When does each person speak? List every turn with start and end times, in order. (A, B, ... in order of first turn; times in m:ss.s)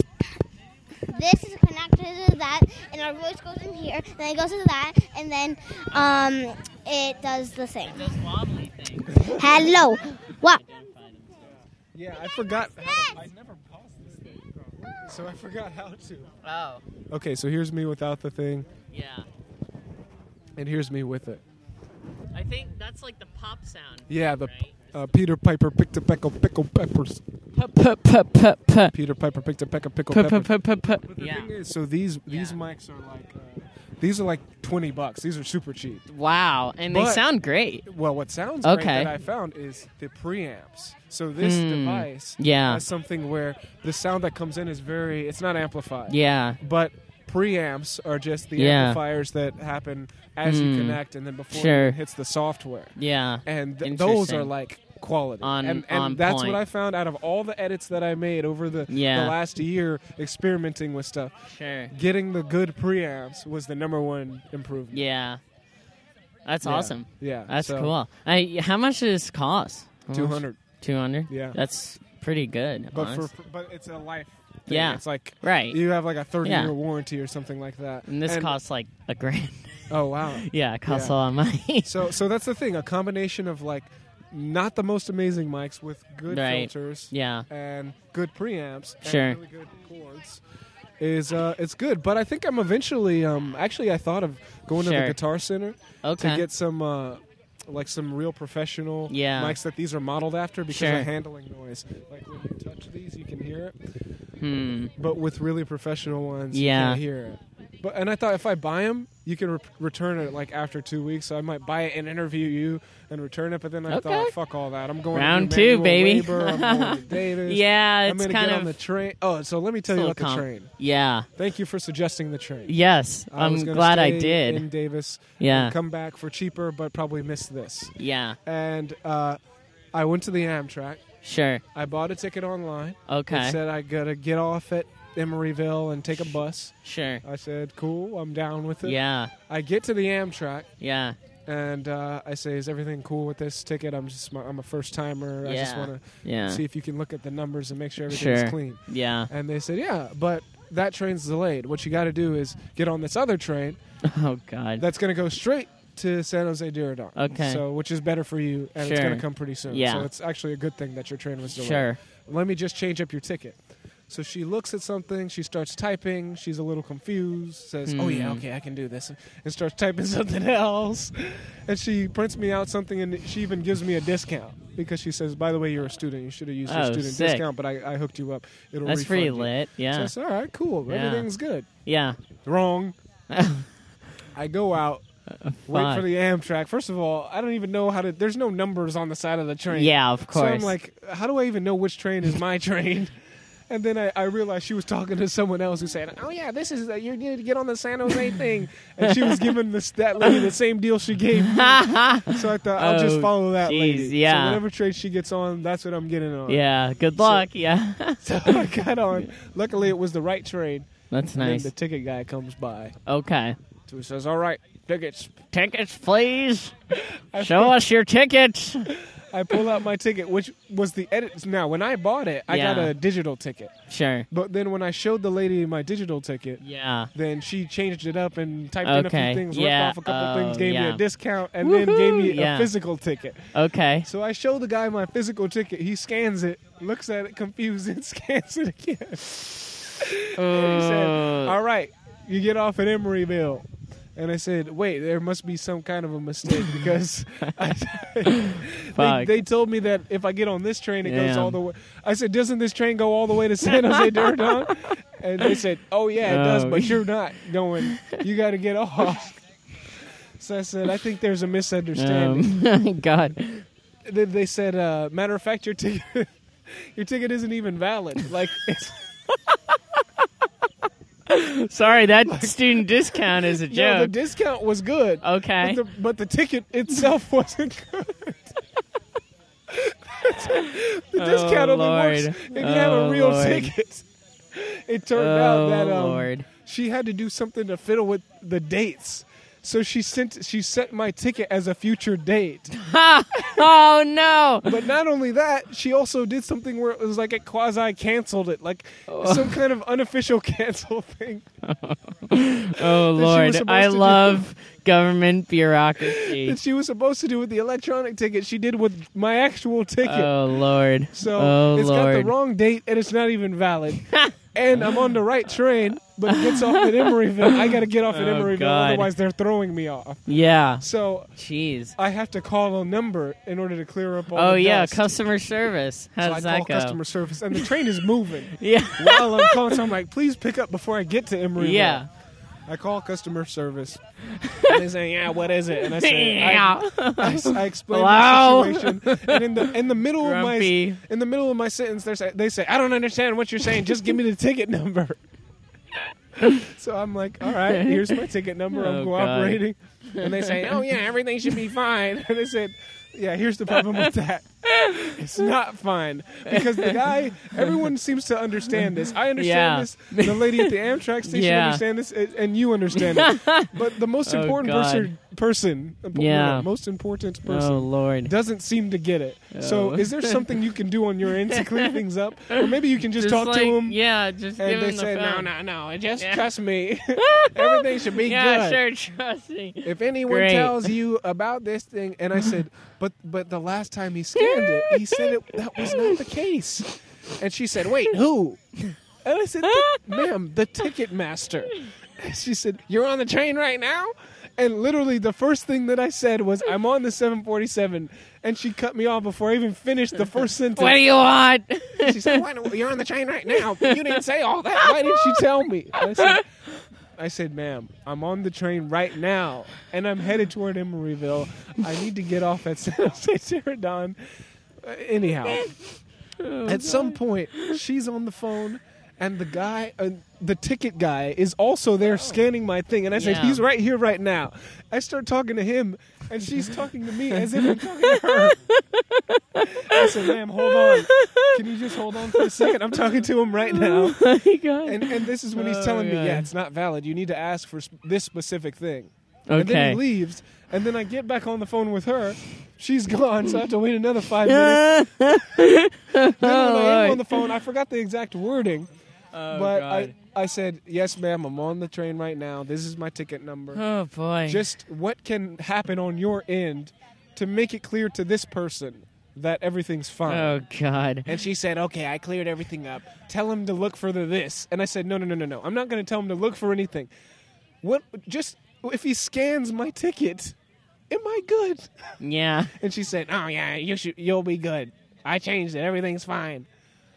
0:01.1-0:08.1 A
0:07.8-0:09.5 B
0:09.1-0:09.8 C
0:09.3-0:10.6 A
0:10.5-0:11.6 B
0:11.9-0:16.3 C
0:12.5-0:13.2 A
0:16.4-0:16.8 B
0:17.1-0:18.7 C
0:18.9-0:19.3 B
0:20.6-0:21.4 C
0:22.3-0:24.7 B
0:24.1-0:27.3 C
0:27.5-0:28.9 B
0:28.9-0:36.0 C
0:30.1-0:31.5 B
0:32.3-0:32.6 B
0:36.1-0:37.8 B
0:36.9-0:37.2 C
0:37.8-0:52.9 C
0:38.6-0:39.1 B
0:41.4-0:42.8 B
0:46.1-0:46.6 B
0:48.6-0:49.0 B
0:50.4-0:51.0 B
0:51.5-0:52.0 B
0:53.0-0:54.5 B
0:53.4-1:05.0 C
0:55.4-0:56.6 B
0:58.9-0:59.4 B
1:01.5-1:01.9 B
1:04.9-1:05.4 B
1:06.4-1:13.3 B
1:06.6-1:07.9 C
1:10.1-1:10.6 C
1:11.3-1:11.6 C
1:12.9-1:18.6 C
1:14.7-1:15.8 B
1:16.4-1:16.7 B
1:18.1-1:21.9 B
1:19.9-1:21.1 C
1:21.8-1:30.4 C
1:26.3-1:27.5 B
1:29.0-1:29.4 B
1:31.0-1:43.8 C
1:34.8-1:35.2 B
1:36.0-1:36.4 B
1:39.1-1:39.6 B
1:40.7-1:41.1 B
1:44.4-1:44.9 B
1:45.0-2:00.7 C
1:46.5-1:47.0 B
1:53.9-1:54.3 B
1:55.1-1:58.8 B
1:59.9-2:01.3 B
2:01.4-2:02.7 C
2:02.7-2:04.6 B
2:03.3-2:09.4 C
2:05.4-2:05.7 B
2:08.0-2:08.4 B
2:09.9-2:11.0 C
2:11.2-2:11.6 B
2:11.7-2:20.7 C
2:13.1-2:13.6 B
2:16.8-2:17.2 B
2:18.8-2:19.3 B
2:20.8-2:21.2 B
2:21.5-2:33.8 C
2:25.4-2:26.6 B
2:28.1-2:29.3 B
2:34.0-2:34.8 B
2:34.8-2:43.6 C
2:37.2-2:37.6 B
2:38.8-2:40.1 B
2:41.6-2:42.0 B
2:44.1-3:01.7 C
2:47.9-2:48.4 B
2:56.7-2:57.5 B
2:58.8-3:00.1 B
3:00.9-3:01.3 B
3:01.8-3:02.2 B
3:02.4-3:03.0 C
3:03.3-3:03.7 B
3:04.3-3:05.0 C
3:05.3-3:06.0 B
3:05.7-3:13.1 C
3:09.7-3:10.7 B
3:13.7-3:26.6 C
3:19.0-3:19.4 B
3:21.4-3:24.6 B
3:26.5-3:28.7 B
3:27.2-3:27.5 C
3:28.2-3:32.9 C
3:31.1-3:31.7 B
3:33.0-3:33.6 B
3:33.9-3:35.4 C
3:35.5-3:36.8 B
3:36.9-3:37.8 C
3:37.4-3:38.9 B
3:38.9-3:43.7 C
3:42.5-3:42.9 B
3:43.9-3:44.3 B
3:44.3-3:46.6 C
3:46.6-3:47.1 B
3:47.1-3:53.5 C
3:48.8-3:51.0 B
3:51.6-3:52.7 B
3:53.5-3:54.1 B
3:54.0-4:19.4 C
4:00.3-4:01.6 B
4:08.3-4:09.4 B
4:11.0-4:11.6 B
4:13.8-4:14.7 B
4:16.2-4:17.0 B
4:20.4-4:22.5 C
4:22.0-4:23.6 B
4:24.0-4:29.1 C
4:31.3-4:34.1 B
4:32.2-4:38.6 C
4:35.2-4:35.8 B
4:39.7-4:52.7 C
4:40.5-4:43.7 B
4:45.1-4:46.4 B
4:52.7-4:54.8 B
4:54.6-5:01.4 C
4:59.1-4:59.6 B
5:01.6-5:06.6 B
5:02.8-5:04.4 C
5:06.0-5:10.3 C
5:10.0-5:12.3 B
5:11.1-5:20.3 C
5:14.1-5:15.0 B
5:16.3-5:19.1 B
5:20.3-5:20.8 B
5:20.8-5:21.3 C
5:21.4-5:22.0 B
5:22.0-5:25.2 C
5:24.3-5:27.0 B
5:26.2-5:32.0 C
5:28.6-5:29.8 B
5:31.6-5:32.1 B
5:32.7-5:34.0 C
5:34.4-5:34.8 B
5:34.6-5:45.2 C
5:35.8-5:41.0 B
5:46.4-6:14.0 C
5:47.6-5:48.2 B
5:48.7-5:50.8 B
5:53.8-5:54.1 B
5:54.7-5:55.1 B
5:56.5-5:57.0 B
5:59.3-6:00.7 B
6:01.2-6:01.8 B
6:03.0-6:05.1 B
6:06.1-6:06.7 B
6:07.4-6:08.3 B
6:09.5-6:10.5 B
6:11.5-6:12.0 B
6:12.5-6:15.5 B
6:14.6-6:18.8 C
6:16.2-6:16.4 B
6:17.2-6:20.9 B
6:19.8-6:28.6 C
6:24.4-6:26.2 B
6:29.2-6:41.0 C
6:29.6-6:30.2 B
6:40.7-6:42.4 B
6:42.0-6:46.4 C
6:43.8-6:44.1 B
6:44.8-6:45.4 B
6:45.9-6:46.4 B
6:47.2-6:55.7 C
6:55.5-6:55.8 B
6:56.4-6:57.8 B
6:56.6-7:08.6 C
7:03.1-7:03.6 B
7:07.4-7:12.8 B
7:09.7-7:14.3 C
7:13.6-7:16.5 B
7:14.8-7:25.4 C
7:19.5-7:20.0 B
7:24.4-7:27.4 B
7:26.3-7:28.9 C
7:29.3-7:30.1 B
7:29.5-7:33.8 C
7:33.7-7:34.7 B
7:34.5-7:40.6 C
7:40.2-7:41.3 B
7:41.2-7:47.1 C
7:47.8-7:50.6 C
7:51.1-7:52.0 C
7:52.2-7:52.7 B
7:52.7-7:56.7 C